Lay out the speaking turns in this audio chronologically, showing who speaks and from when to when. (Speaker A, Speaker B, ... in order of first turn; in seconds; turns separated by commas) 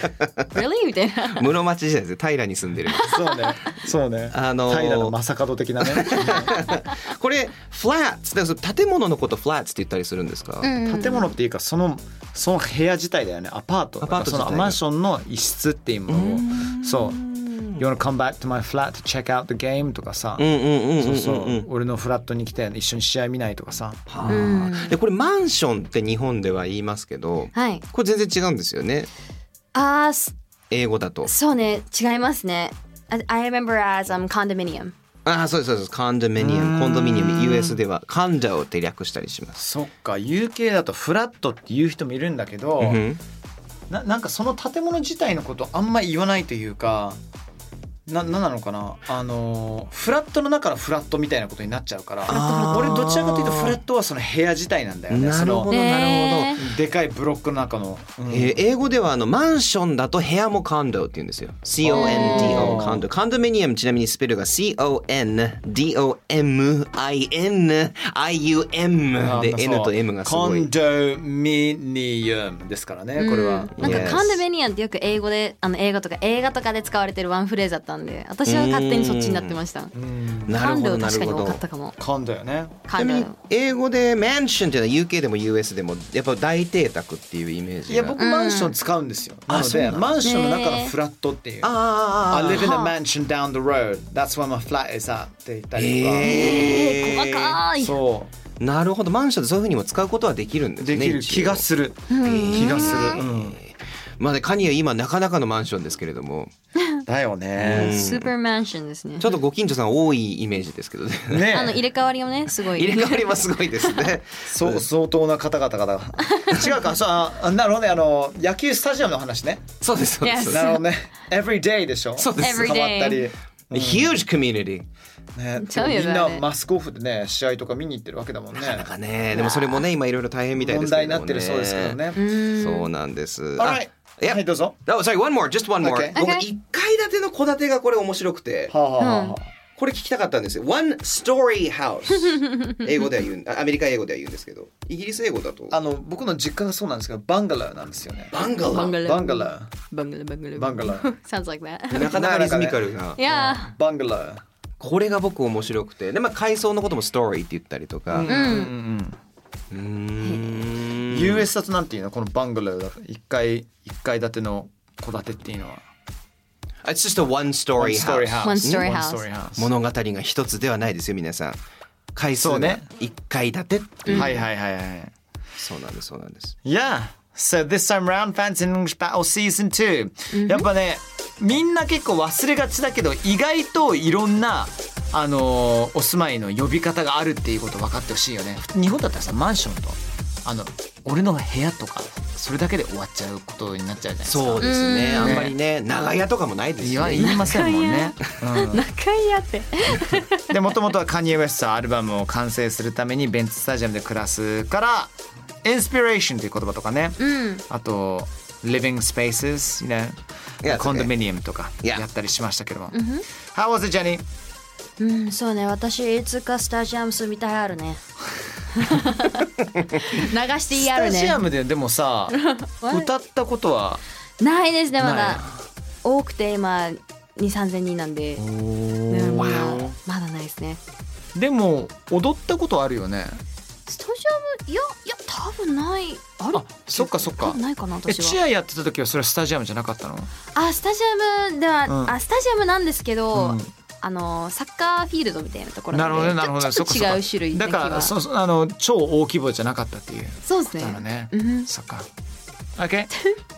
Speaker A: 0.5-1.5, Speaker B: 1.3-3.1, Speaker A: 2.9-3.5, Speaker C: 3.0-6.5, Speaker B: 4.3-5.2, Speaker B: 5.8-10.7, Speaker A: 10.6-11.3, Speaker C: 10.8-17.2, Speaker B: 14.0-14.8, Speaker B: 16.1-17.8, Speaker C: 17.7-24.1, Speaker B: 20.4-21.7, Speaker B: 24.1-29.1, Speaker A: 24.2-25.0, Speaker A: 27.5-27.8, Speaker A: 29.7-30.3, Speaker B: 30.7-31.3, Speaker A: 31.2-34.9, Speaker B: 35.2-39.6, Speaker C: 36.4-37.6, Speaker C: 39.6-43.0, Speaker B: 42.8-43.2, Speaker C: 43.9-47.2, Speaker C: 48.1-55.7, Speaker A: 52.3-53.0, Speaker B: 52.3-53.8, Speaker B: 55.1-56.6, Speaker A: 55.7-56.6, Speaker C: 56.6-58.6, Speaker B: 58.3-70.7, Speaker C: 61.8-63.1, Speaker A: 61.9-62.8, Speaker C: 69.2-74.4, Speaker A: 73.2-79.9, Speaker B: 73.8-74.3, Speaker B: 78.4-79.6, Speaker C: 79.9-80.6, Speaker B: 80.5-81.6, Speaker A: 80.5-82.0, Speaker C: 82.0-82.8, Speaker A: 82.9-83.3, Speaker B: 83.0-88.2, Speaker C: 87.9-91.7, Speaker A: 88.2-88.8, Speaker B: 89.5-90.1, Speaker A: 90.2-90.9, Speaker B: 91.6-92.7, Speaker C: 92.3-96.5, Speaker A: 92.5-92.9, Speaker B: 95.8-97.6, Speaker A: 96.2-98.0, Speaker C: 97.8-98.3, Speaker B: 98.6-101.6, Speaker C: 100.8-103.6, Speaker A: 102.1-103.2, Speaker B: 102.2-106.5, Speaker C: 107.1-108.0, Speaker B: 107.5-108.3, Speaker A: 107.7-109.3, Speaker B: 109.2-111.5, Speaker C: 111.3-111.8, Speaker A: 111.5-114.2, Speaker B: 112.6-114.8, Speaker C: 114.5-119.7, Speaker B: 119.8-120.6, Speaker A: 120.2-120.8, Speaker C: 120.5-124.2, Speaker B: 122.2-122.7, Speaker A: 122.4-123.3, Speaker B: 123.7-124.9, Speaker C: 125.3-129.6, Speaker A: 125.6-126.4, Speaker B: 128.5-138.7, Speaker A: 129.3-129.8, Speaker C: 130.6-132.2, Speaker A: 132.1-132.9, Speaker C: 133.6-134.8, Speaker C: 135.8-136.2, Speaker A: 136.1-136.4, Speaker C: 138.7-139.5, Speaker A: 139.0-139.4, Speaker B: 139.8-145.8, Speaker C: 145.7-148.4, Speaker B: 148.3-149.0, Speaker A: 148.6-152.2, Speaker C: 149.0-149.7, Speaker C: 150.6-151.1, Speaker B: 151.9-153.2, Speaker C: 152.1-154.4, Speaker A: 153.2-153.7, Speaker B: 154.8-158.3, Speaker C: 158.1-159.2, Speaker A: 158.2-158.7, Speaker B: 159.7-161.5, Speaker A: 160.2-160.8, Speaker C: 161.1-165.8, Speaker B: 166.8-171.6, Speaker C: 167.8-169.7, Speaker A: 168.4-169.3, Speaker B: 172.1-174.4, Speaker C: 172.4-172.8, Speaker A: 174.1-174.3, Speaker C: 174.1-175.1, Speaker B: 175.6-176.5, Speaker C: 176.6-195.5, Speaker A: 180.3-180.7, Speaker B: 194.2-197.4, Speaker A: 194.6-195.5, Speaker C: 196.8-198.8, Speaker A: 197.2-200.4, Speaker C: 200.5-205.1, Speaker C: 205.6-213.0, Speaker A: 207.2-207.6, Speaker B: 210.6-211.2, Speaker A: 212.9-213.2, Speaker C: 213.5-214.2, Speaker A: 215.0-218.0, Speaker A: 218.8-221.4, Speaker C: 220.7-224.0, Speaker A: 222.3-223.1, Speaker A: 224.4-225.5, Speaker C: 225.0-225.5, Speaker A: 226.0-228.4, Speaker C: 228.4-229.9, Speaker A: 229.1-230.8, Speaker B: 229.3-229.9, Speaker C: 231.3-233.4, Speaker A: 233.9-238.4, Speaker C: 236.5-240.3, Speaker A: 240.5-248.1, Speaker C: 241.9-242.2, Speaker C: 243.3-243.7, Speaker C: 245.9-252.1, Speaker A: 250.4-251.7, Speaker C: 252.8-253.1